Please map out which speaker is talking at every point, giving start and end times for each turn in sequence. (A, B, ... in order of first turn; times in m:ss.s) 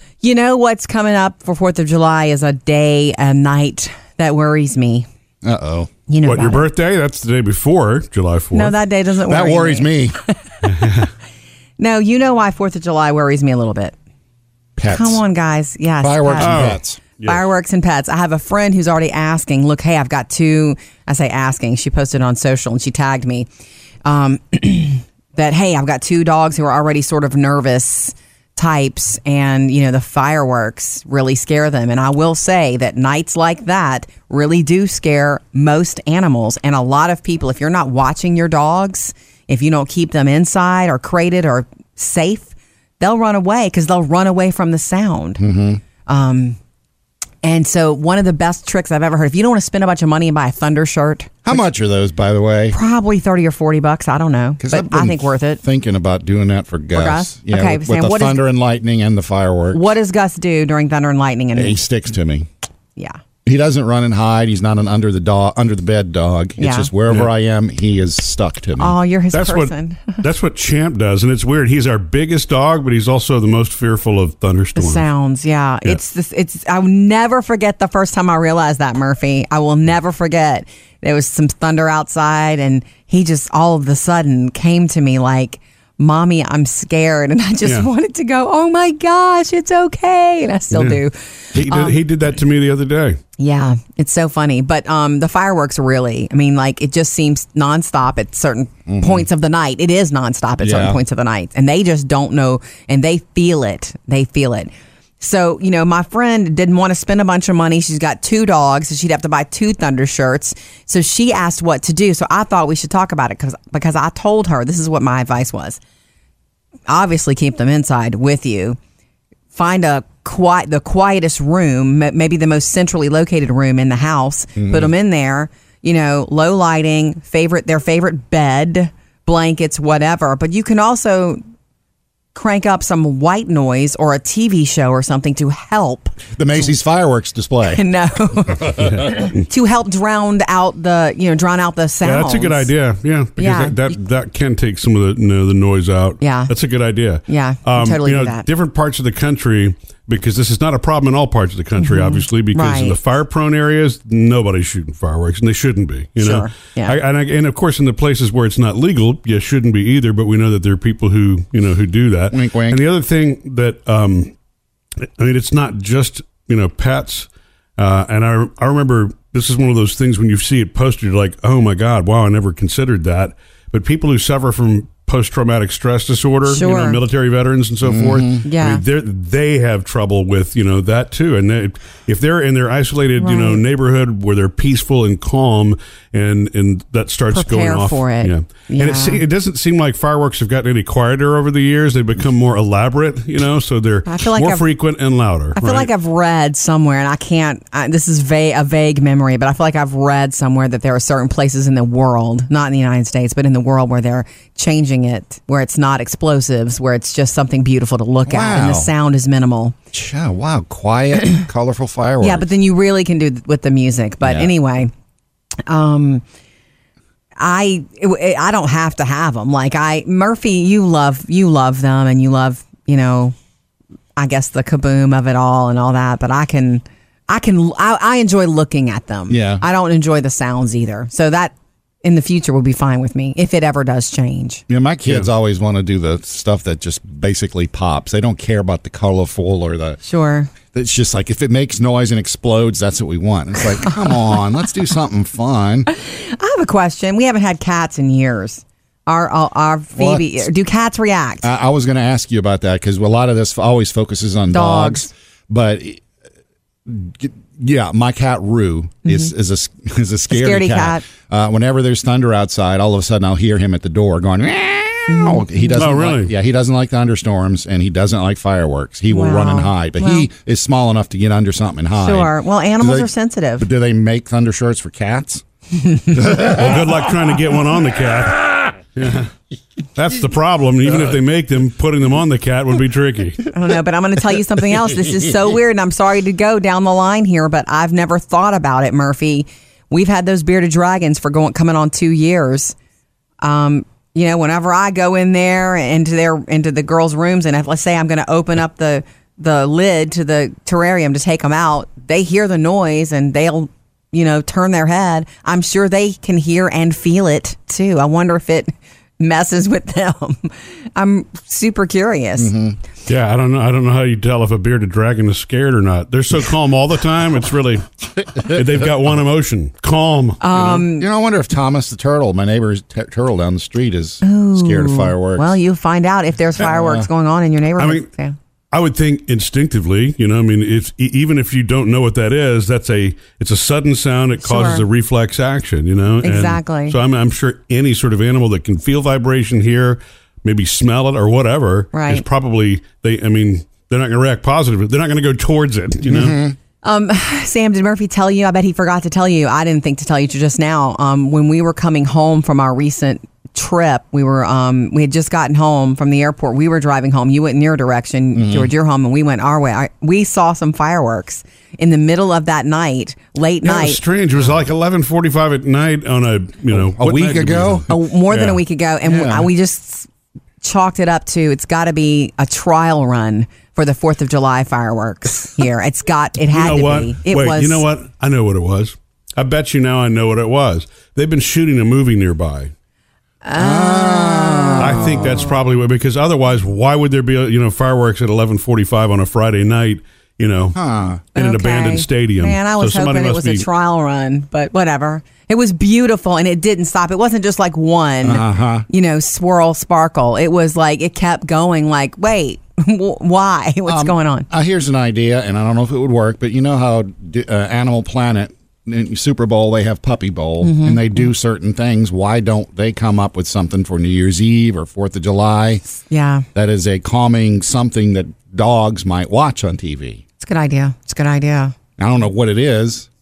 0:00.2-0:05.0 A
0:05.4-0:05.9 B
0:06.1-0:06.7 A
0:06.2-0:08.7 C
0:08.5-0:10.3 A
0:09.3-0:10.2 B
0:10.6-0:11.1 C
0:11.8-0:13.9 A
0:14.8-0:15.2 B
0:14.9-0:23.5 A
0:16.0-0:17.0 B
0:16.4-0:17.4 C
0:24.0-0:45.4 A
0:45.4-0:45.8 B
0:46.1-0:46.6 A
0:47.4-0:51.6 A
0:51.4-0:52.8 B
0:52.7-0:55.6 A
0:54.6-0:59.8 B
0:56.9-0:58.4 A
0:59.7-1:01.8 A
1:01.5-1:02.4 B
1:03.4-1:08.9 B
1:06.6-1:06.9 A
1:08.8-1:10.2 A
1:09.3-1:15.0 C
1:14.8-1:32.0 A
1:30.7-1:31.0 C
1:31.5-1:33.2 C
1:33.4-1:55.8 A
1:38.9-1:39.2 B
1:40.6-1:41.0 B
1:56.9-1:58.8 A
1:59.5-2:11.4 A
2:04.6-2:04.9 B
2:12.3-2:16.6 A
2:16.3-2:17.8 B
2:17.7-2:22.7 A
2:18.7-2:19.3 C
2:22.0-2:44.3 C
2:23.4-2:23.9 A
2:26.2-2:26.5 A
2:27.3-2:28.4 A
2:31.8-2:33.0 A
2:36.2-2:36.9 A
2:42.3-2:42.8 B
2:45.0-3:15.9 C
2:56.4-2:57.0 A
2:57.8-2:58.4 B
2:58.4-2:58.8 A
3:03.2-3:03.6 A
3:07.3-3:09.2 A
3:14.0-3:14.7 A
3:15.5-3:29.7 A
3:28.3-3:28.9 B
3:29.9-3:32.5 B
3:32.2-3:34.9 A
3:34.2-3:34.5 B
3:35.7-3:36.2 A
3:37.4-3:43.3 A
3:44.2-3:54.6 A
3:49.3-3:49.6 B
3:54.7-4:00.0 B
4:00.0-4:00.5 A
4:00.7-4:05.9 B
4:03.9-4:04.2 A
4:05.9-4:11.4 A
4:10.0-4:10.4 B
4:11.4-4:16.0 B
4:14.5-4:15.1 A
4:16.8-4:35.4 B
4:19.0-4:19.3 A
4:20.3-4:21.0 A
4:25.1-4:25.9 A
4:25.8-4:26.3 C
4:29.1-4:30.3 A
4:32.0-4:33.6 A
4:35.8-4:36.6 A
4:36.1-4:36.5 B
4:36.3-4:39.3 C
4:39.9-4:43.5 C
4:43.5-4:52.7 A
4:53.4-5:12.5 A
5:12.4-5:12.8 B
5:13.1-5:20.8 C
5:20.4-5:21.1 A
5:20.7-5:25.5 B
5:24.2-5:28.4 A
5:26.6-5:27.1 B
5:27.8-5:28.1 C
5:28.7-5:46.4 C
5:34.4-5:34.8 A
5:36.2-5:37.0 A
5:41.9-5:42.2 A
5:46.0-5:46.6 B
5:46.8-6:04.0 A
5:58.3-5:58.7 B
6:03.6-6:08.6 C
6:06.7-6:07.9 B
6:07.9-6:10.1 A
6:09.0-6:09.5 B
6:10.6-6:17.8 A
6:16.5-6:22.7 C
6:23.4-6:25.4 A
6:23.5-6:25.5 B
6:24.8-6:30.8 C
6:30.7-6:31.2 B
6:31.3-6:33.6 C
6:31.4-6:44.5 A
6:38.2-6:38.8 B
6:43.9-6:55.8 B
6:50.6-6:51.3 A
6:56.1-6:56.4 A
6:56.5-7:00.2 B
7:00.4-7:01.7 A
7:02.0-7:03.1 B